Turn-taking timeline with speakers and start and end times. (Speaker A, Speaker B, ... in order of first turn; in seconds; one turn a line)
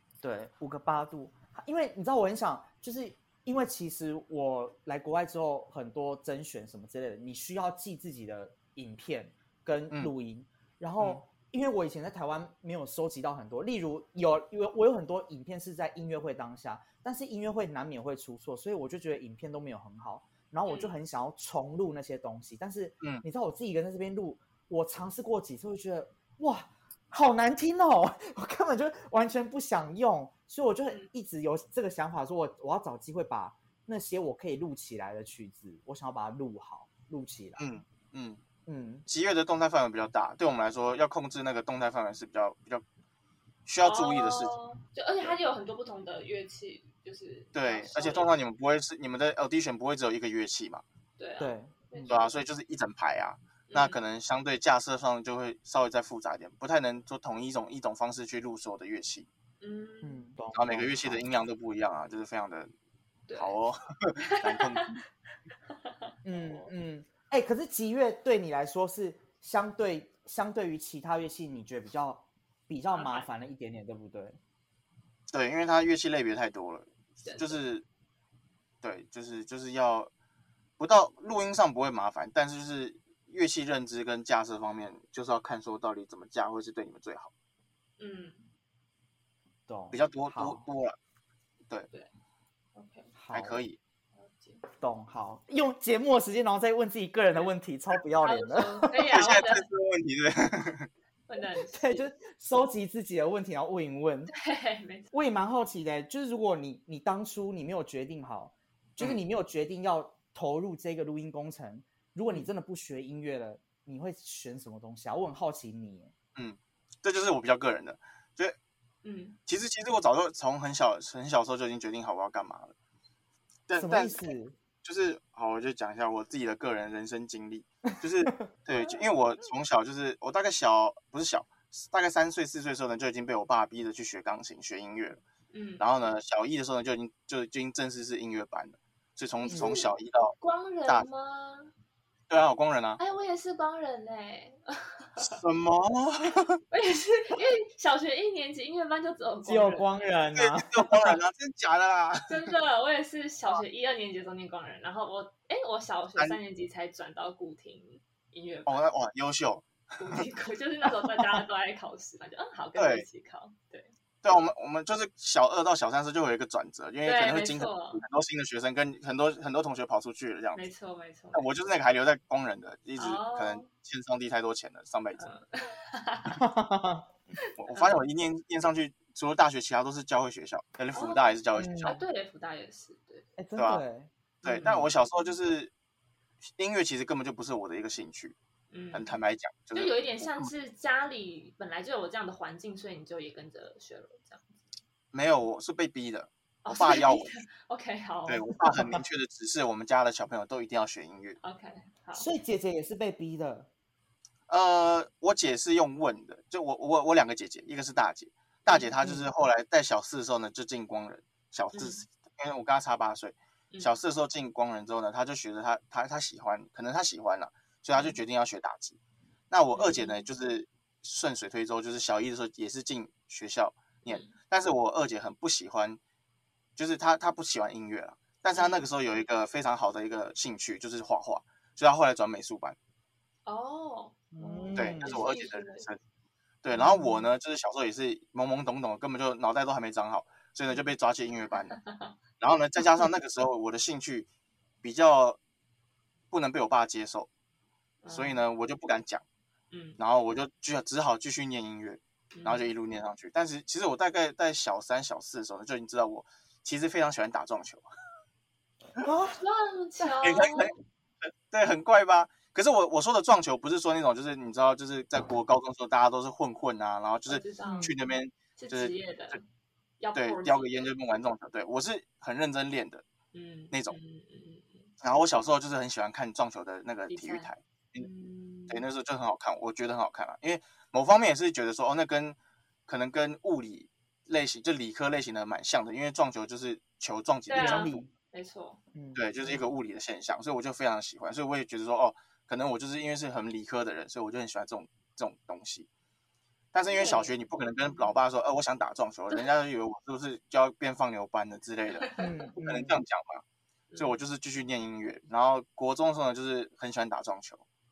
Speaker A: 0.2-37.7
Speaker B: 20.6-20.9
Speaker C: 37.6-38.4
Speaker A: 38.6-39.0
Speaker C: 39.0-42.8
Speaker C: 43.6-44.5
Speaker B: 43.8-48.3
Speaker C: 47.5-50.8
Speaker B: 51.2-52.3
Speaker A: 51.4-52.1
Speaker C: 52.1-59.3
Speaker B: 53.7-54.0
Speaker B: 59.6-60.2
Speaker A: 60.0-61.2
Speaker C: 60.5-62.7
Speaker B: 63.3-63.5
Speaker C: 63.3-65.0
Speaker B: 64.2-65.0
Speaker B: 65.8-66.7
Speaker A: 66.2-74.4
Speaker B: 72.9-73.3
Speaker C: 75.3-77.8
Speaker B: 77.2-77.6
Speaker C: 78.8-80.1
Speaker C: 80.8-87.3
Speaker B: 88.0-88.4
Speaker A: 89.7-90.6
Speaker C: 89.9-91.0
Speaker B: 92.7-93.1
Speaker A: 93.1-93.6
Speaker C: 93.3-93.8
Speaker B: 94.2-94.6
Speaker A: 94.8-98.8
Speaker B: 98.2-99.7
Speaker C: 99.0-100.9
Speaker B: 101.3-102.0
Speaker A: 101.7-104.3
Speaker B: 104.3-105.1
Speaker A: 105.1-116.1
Speaker C: 116.3-118.5
Speaker B: 119.0-119.4
Speaker C: 119.5-122.7
Speaker C: 123.7-124.3
Speaker A: 123.8-124.6
Speaker C: 124.8-135.2
Speaker B: 128.7-129.0
Speaker B: 135.5-135.8
Speaker C: 135.8-140.3
Speaker B: 139.4-141.7
Speaker C: 142.3-143.0
Speaker B: 143.0-145.4
Speaker C: 145.2-146.6
Speaker B: 146.7-150.1
Speaker A: 149.4-151.2
Speaker C: 150.3-152.4
Speaker B: 152.3-158.9
Speaker C: 158.7-160.3
Speaker B: 160.0-163.9
Speaker C: 162.8-163.1
Speaker C: 164.2-170.7
Speaker B: 167.0-168.0
Speaker B: 170.6-171.5
Speaker C: 171.3-175.2
Speaker B: 172.9-173.7
Speaker B: 175.2-176.4
Speaker A: 176.4-177.0
Speaker C: 177.5-182.0
Speaker B: 177.7-178.0
Speaker B: 180.9-183.2
Speaker A: 181.5-182.0
Speaker A: 183.4-184.9
Speaker C: 183.6-183.8
Speaker C: 184.4-185.7
Speaker B: 184.4-185.0
Speaker C: 186.6-188.3
Speaker B: 188.7-189.1
Speaker C: 188.9-190.5
Speaker B: 189.7-194.6
Speaker C: 195.1-197.3
Speaker B: 196.6-198.5
Speaker C: 198.3-201.4
Speaker A: 198.7-199.0
Speaker B: 201.4-202.3
Speaker A: 202.1-203.7
Speaker C: 204.5-219.0
Speaker A: 209.0-209.3
Speaker B: 211.7-212.0
Speaker C: 219.5-226.0
Speaker B: 219.7-220.2
Speaker B: 224.0-224.3
Speaker C: 226.8-232.8
Speaker B: 228.5-228.9
Speaker B: 233.4-235.9
Speaker A: 234.3-235.2
Speaker C: 234.7-236.0
Speaker C: 236.6-241.8
Speaker A: 236.7-237.2
Speaker B: 241.8-242.1
Speaker C: 242.4-244.3
Speaker C: 244.8-245.4
Speaker C: 246.3-247.3
Speaker B: 248.0-248.4
Speaker C: 248.1-249.2
Speaker B: 249.7-250.0
Speaker C: 250.0-257.9
Speaker B: 252.3-252.7
Speaker A: 258.9-259.4
Speaker B: 259.4-260.7
Speaker C: 260.2-269.4
Speaker B: 267.3-267.9
Speaker A: 267.6-267.9
Speaker B: 268.6-269.4
Speaker B: 270.0-270.9
Speaker C: 270.1-273.0
Speaker B: 273.3-274.9
Speaker C: 273.7-274.0
Speaker C: 275.0-278.1
Speaker B: 277.1-278.8
Speaker C: 278.7-287.9
Speaker B: 287.5-288.8
Speaker A: 287.5-288.1
Speaker A: 288.9-289.6
Speaker C: 289.1-295.9
Speaker C: 296.7-303.4
Speaker B: 297.0-297.3
Speaker B: 302.0-302.3
Speaker A: 302.2-303.0
Speaker B: 303.9-304.2
Speaker C: 304.0-307.6